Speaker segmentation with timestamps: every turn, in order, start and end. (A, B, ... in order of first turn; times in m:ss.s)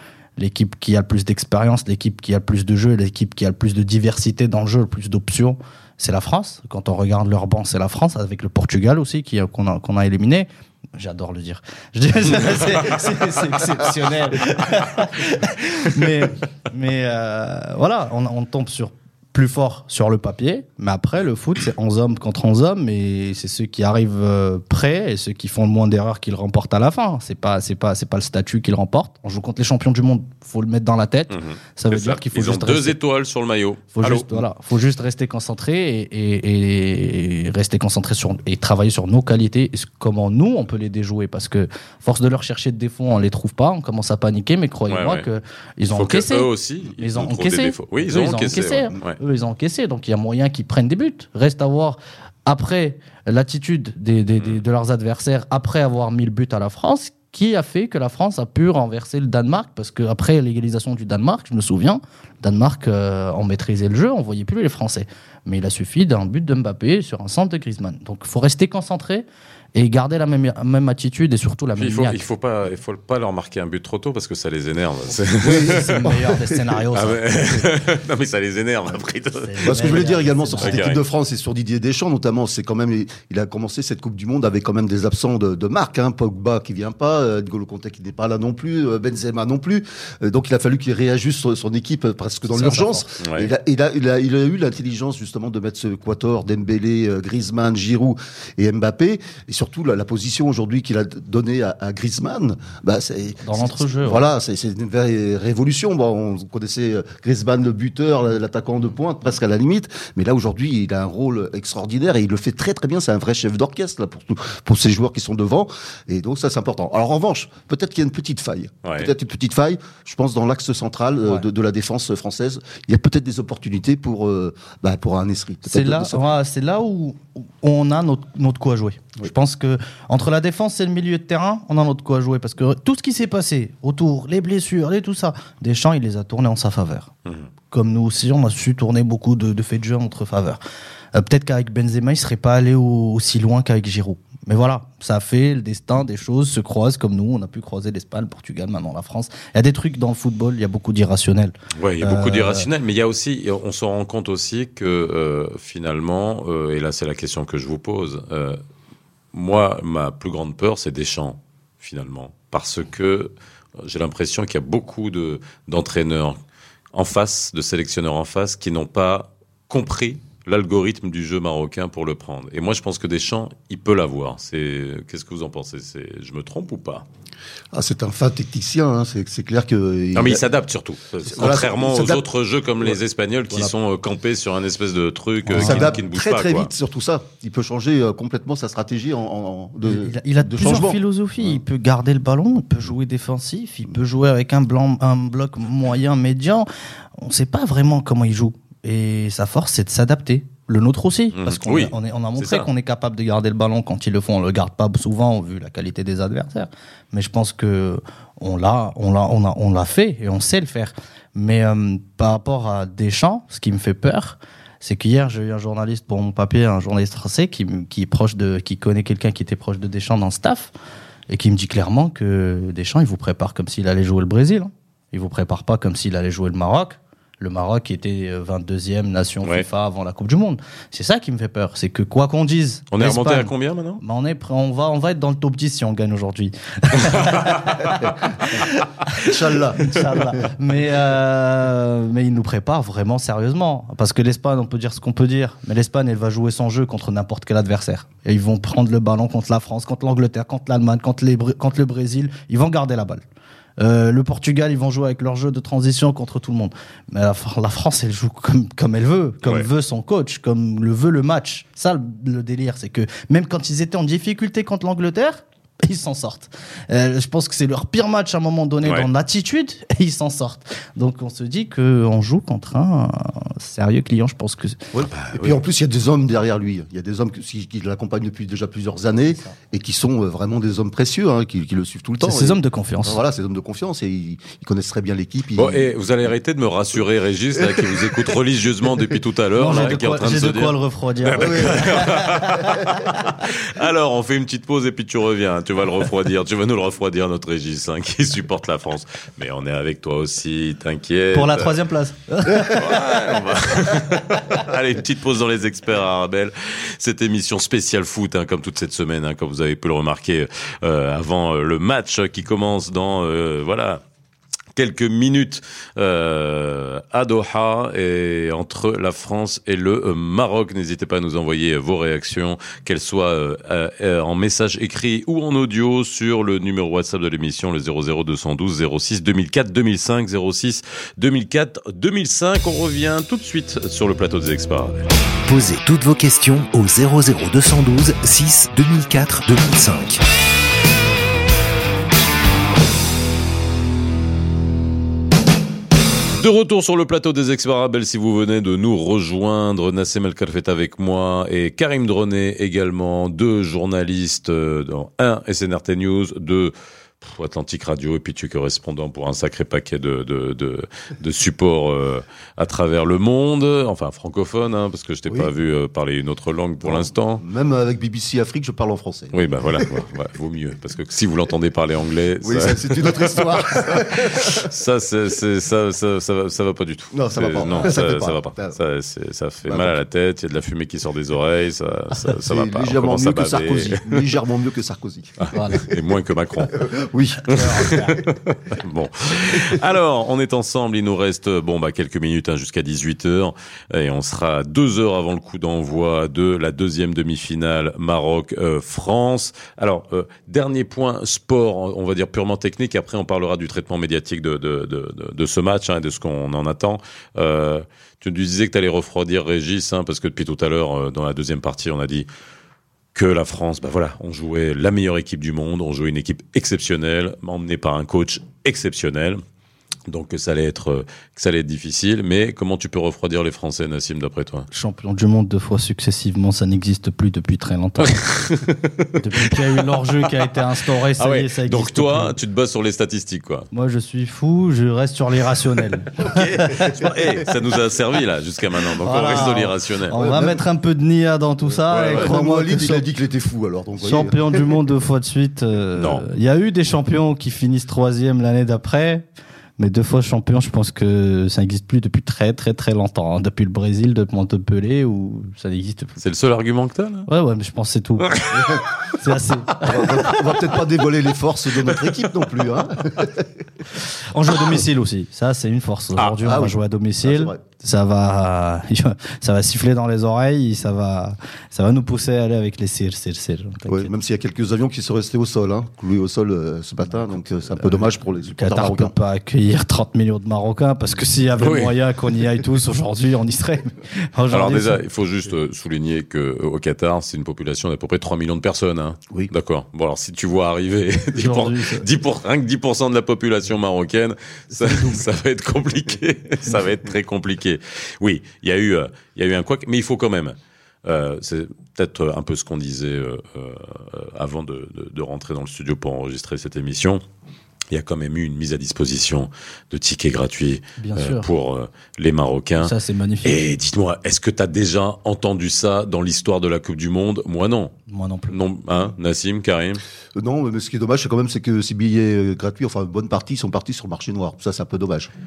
0:00.4-0:33.0 A
0:31.3-0:34.4 B
0:33.9-1:12.2 A
0:44.9-0:45.2 B
0:45.9-0:49.2 B
1:11.8-1:16.1 B
1:15.4-1:16.3 C
1:15.4-1:17.2 A
1:16.9-1:21.0 B
1:19.4-1:20.8 A
1:19.6-2:06.3 C
1:32.5-1:33.1 A
1:33.2-1:33.5 B
1:43.4-1:44.2 A
1:58.8-1:59.1 B
2:05.6-2:17.1 A
2:17.7-2:20.6 A
2:21.1-2:32.7 A
2:31.8-2:38.6 B
2:39.3-2:43.3 B
2:43.8-2:46.4 B
2:46.9-2:57.0 B
2:57.7-3:00.4 C
3:00.1-3:06.7 B
3:01.2-3:02.2 C
3:03.5-3:03.7 C
3:05.5-3:05.9 A
3:05.5-3:11.0 C
3:09.8-3:40.7 A
3:21.3-3:22.7 B
3:41.3-3:59.2 A
3:52.9-3:54.0 B
3:57.2-3:57.5 B
3:59.2-4:00.4 C
3:59.8-4:13.2 A
4:13.8-4:34.8 A
4:34.9-4:45.9 C
4:35.1-4:35.6 B
4:42.2-4:43.2 A
4:45.6-5:01.8 B
4:47.6-4:48.2 C
4:48.8-4:49.2 C
4:49.6-4:53.4 A
4:51.4-4:52.2 C
5:01.3-5:03.0 A
5:02.5-5:14.0 B
5:14.8-5:35.1 B
5:35.4-5:40.2 D
5:46.4-6:07.4 B
6:06.8-6:10.0 C
6:09.3-6:24.3 B
6:12.4-6:14.7 C
6:17.1-6:18.8 C
6:19.6-6:20.0 C
6:22.4-6:25.9 C
6:25.4-6:26.9 B
6:25.5-6:25.9 A
6:26.7-6:28.0 C
6:27.4-6:28.2 A
6:27.5-6:52.3 B
6:53.1-6:59.4 B
7:00.1-7:04.7 B
7:04.7-7:08.2 A
7:08.0-7:09.8 B
7:09.2-7:12.3 A
7:11.2-7:13.7 B
7:13.7-7:16.9 A
7:16.2-7:20.1 B
7:19.0-7:23.0 A
7:20.1-7:20.6 C
7:21.9-7:22.3 B
7:22.0-7:24.7 C
7:24.0-7:29.2 A
7:26.0-7:26.2 B
7:29.8-7:36.2 A
7:36.2-7:37.3 B
7:37.3-7:38.4 A
7:38.3-7:38.8 B
7:38.5-7:38.8 C
7:39.1-7:40.0 A
7:39.8-7:43.6 C
7:44.0-7:54.1 A
7:46.4-7:47.6 C
7:53.9-7:59.1 C
7:57.1-8:05.0 A
8:01.6-8:02.0 B
8:04.5-8:27.2 B
8:11.4-8:12.0 A
8:27.9-8:32.9 B
8:31.0-8:31.5 A
8:32.8-8:33.6 A
8:33.4-8:37.9 B
8:38.1-8:38.6 A
8:38.5-8:40.0 B
8:40.4-8:45.3 C